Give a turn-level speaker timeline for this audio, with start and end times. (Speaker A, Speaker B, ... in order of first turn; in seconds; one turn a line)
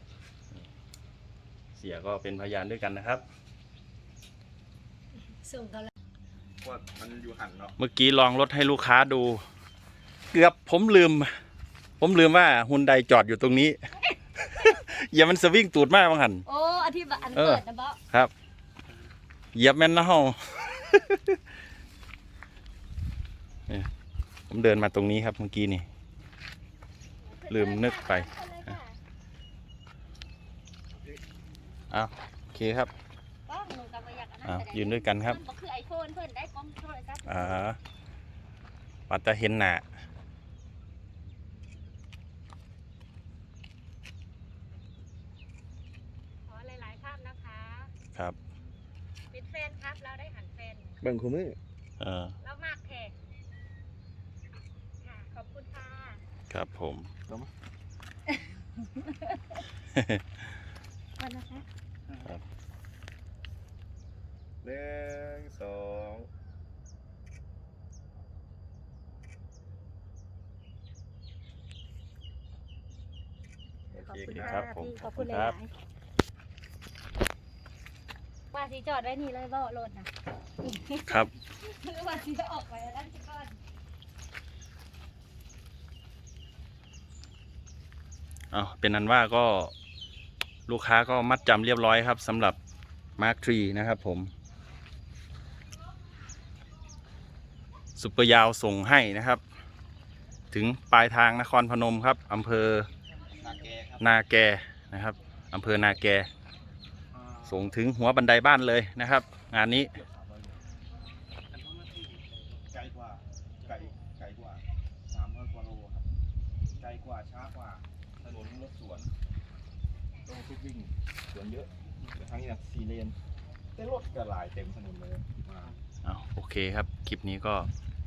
Speaker A: 1.8-3.2
Speaker B: 5.4-5.9
Speaker C: 6.6-7.8
Speaker A: 7.8-9.4
Speaker A: 10.3-11.3
Speaker A: 12.0-13.8
Speaker A: 14.4-16.4
Speaker B: 16.5-18.0
Speaker A: 17.4-18.3
Speaker A: 19.5-21.4
Speaker A: 24.5-25.9
Speaker B: 27.3-29.0
Speaker A: 27.5-28.7
Speaker A: 31.9-32.9
Speaker B: 33.5-37.7
Speaker A: 34.4-35.4
Speaker A: 37.2-37.8
Speaker A: 39.1-39.8
Speaker B: 46.5-47.9
Speaker B: 49.3-51.0
Speaker C: 51.0-51.6
Speaker A: 52.0-52.4
Speaker B: 52.4-53.1
Speaker B: 55.0-56.2
Speaker A: 56.5-57.1
Speaker B: 58.9-59.6
Speaker A: 59.9-60.5
Speaker B: 61.2-61.6
Speaker C: 64.6-66.3
Speaker C: 73.9-74.7
Speaker B: 74.0-75.7
Speaker A: 74.2-75.6
Speaker B: 78.5-80.1
Speaker B: 80.6-83.6
Speaker A: 81.0-81.3
Speaker A: 88.5-89.7
Speaker A: 90.7-92.6
Speaker A: 93.2-94.3
Speaker A: 98.0-99.4
Speaker A: 100.5-102.9
Speaker C: 103.4-104.0
Speaker A: 104.0-106.3
Speaker C: 107.1-107.8
Speaker A: 107.5-109.9
Speaker C: 109.9-110.6
Speaker C: 112.7-116.1
Speaker C: 116.8-119.1
Speaker C: 120.2-123.2
Speaker C: 123.8-125.7
Speaker A: 126.0-127.7